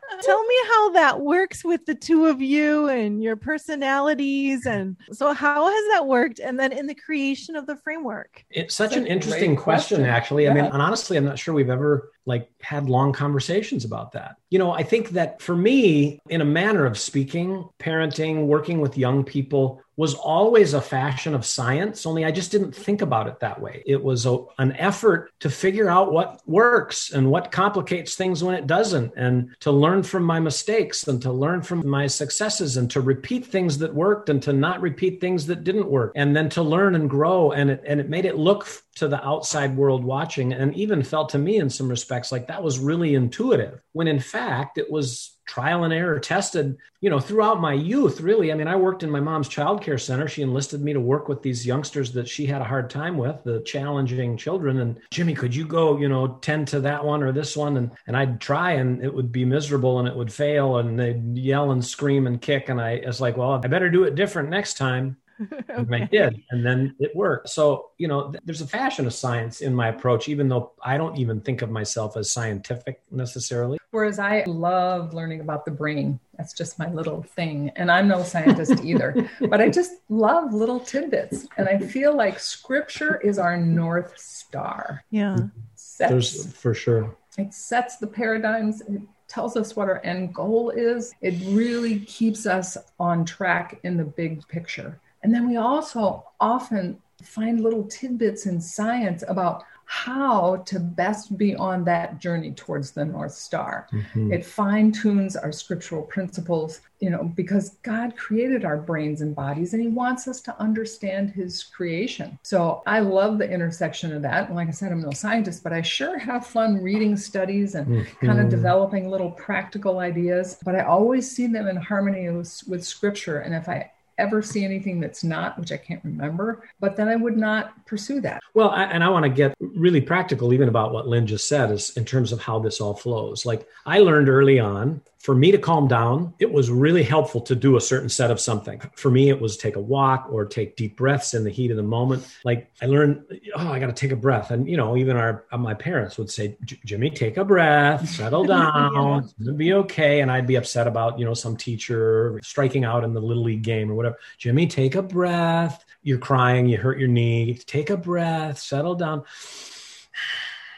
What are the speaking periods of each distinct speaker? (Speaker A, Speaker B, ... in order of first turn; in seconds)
Speaker A: 0.2-8.4, 65.5-66.1, 85.1-85.5
Speaker B: 8.5-65.2, 65.8-73.8, 86.1-87.2, 104.0-104.4, 117.9-118.7, 128.5-160.4
Speaker C: 8.9-10.7, 73.9-85.0, 85.8-86.5, 87.4-128.4